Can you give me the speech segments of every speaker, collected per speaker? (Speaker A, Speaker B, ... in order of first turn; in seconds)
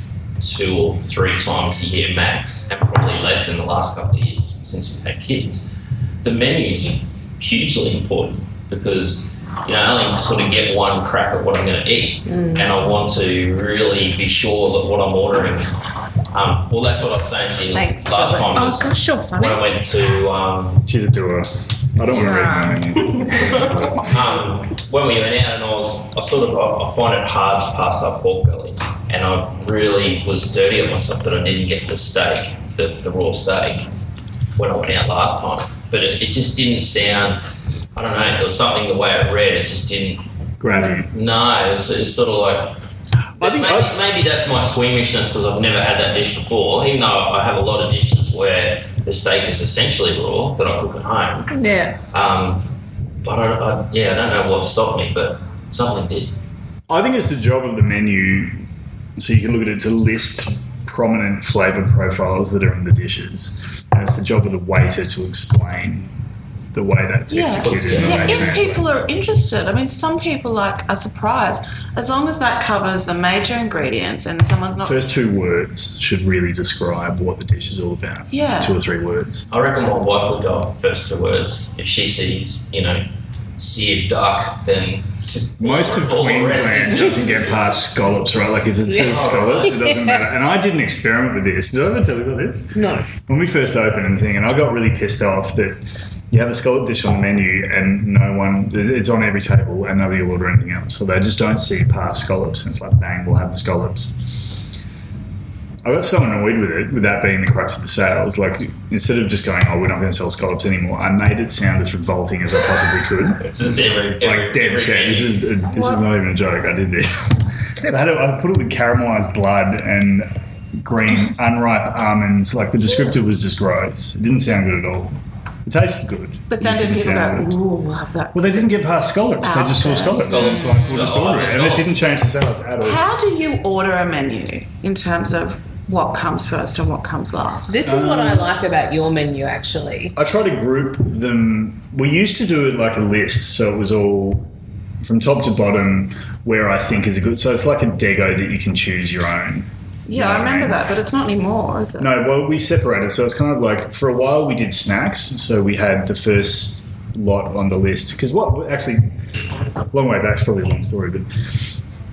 Speaker A: 0.4-15.8, 16.3-20.8, 24.1-33.9, 34.5-37.4, 37.9-40.2, 40.8-42.8, 43.4-51.5, 52.1-52.7, 53.2-56.3, 67.6-68.6, 79.5-83.0, 83.6-87.6, 89.0-89.7, 113.4-115.4, 130.3-132.0
Speaker B: 12.2-12.7, 88.9-89.9, 92.7-93.1, 137.6-140.1
Speaker C: 17.7-18.6, 67.3-75.0, 78.3-78.7, 126.5-128.7, 129.4-130.8, 132.8-137.8, 150.1-152.1
Speaker D: 18.5-19.7, 22.1-22.8, 51.5-52.0
Speaker E: 20.9-24.1, 40.6-41.1, 43.4-44.0, 56.9-58.6, 59.2-66.1, 66.7-69.1, 74.8-79.5, 85.6-104.6, 105.8-113.7, 114.2-127.5, 128.3-133.0, 137.8-138.5, 140.1-144.5, 145.0-150.9, 152.0-159.2, 159.9-161.8